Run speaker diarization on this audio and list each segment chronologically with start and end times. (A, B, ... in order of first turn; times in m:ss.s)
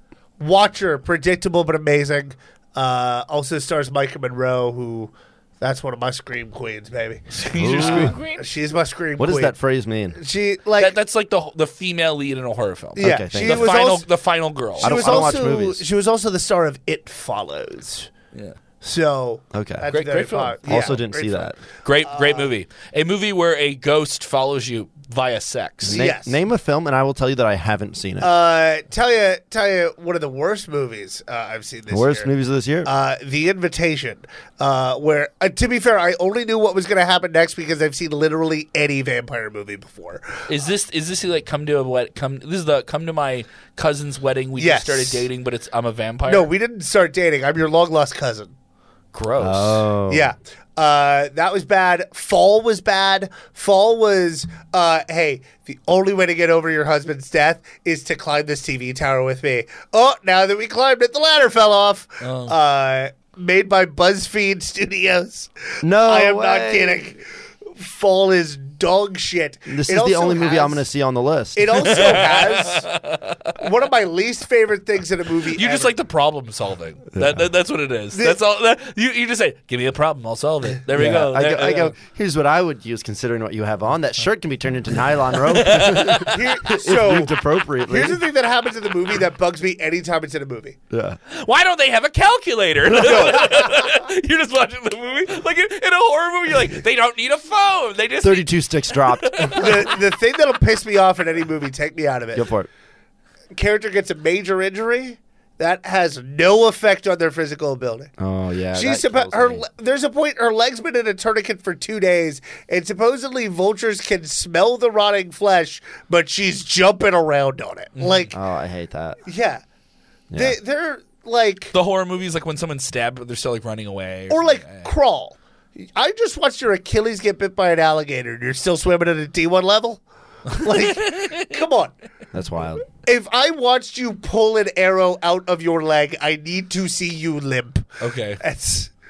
0:00.4-0:09.5 A
0:07.3-0:08.4 B
0:07.6-0:08.2 C
0:09.2-0:10.2 C
0:10.2-0:11.0 A
0:10.8-0:15.3 B
0:13.0-0:13.8 C
0:13.0-0:14.1 A
0:14.8-0:18.1 A
0:14.8-0:15.8 C
0:18.8-0:22.5 A
0:19.5-0:19.9 C
0:19.9-0:20.6 B
0:20.6-0:21.6 C
0:21.8-0:26.0 B
0:25.8-0:28.3 C
0:25.9-0:26.4 A
0:28.2-0:32.3 A
0:31.9-0:32.9 C
0:32.8-0:40.4 A
0:40.5-0:46.5 B
0:44.6-0:45.2 A
0:46.3-0:48.5 A
0:49.1-0:49.8 B
0:49.4-0:50.3 C
0:50.1-1:10.8 A
1:02.2-1:02.6 B
1:05.8-1:07.0 C
1:09.7-1:12.1 C
1:11.6-1:12.9 A
1:11.7-1:13.6 B
1:13.6-1:15.9 A
1:15.5-1:21.9 B
1:17.1-1:17.5 C
1:18.1-1:18.4 A
1:20.9-1:28.2 C
1:25.5-1:26.4 B
1:26.0-1:30.8 A
1:30.9-1:31.2 C
1:31.3-1:39.9 B
1:33.0-1:33.9 A
1:38.2-1:39.9 C
1:39.5-1:42.4 A
1:42.3-1:42.7 C
1:43.5-1:48.1 A
1:48.2-1:49.6 C
1:48.7-1:58.4 A
1:58.0-1:58.3 B
1:58.3-1:59.2 C
1:59.2-1:59.6 A
2:00.3-2:00.6 C
2:00.3-2:01.7 A
2:01.7-2:04.9 B
2:04.3-2:11.9 A
2:10.5-2:11.6 B
2:12.3-2:12.9 C
2:13.0-2:18.9 A
2:18.0-2:18.4 B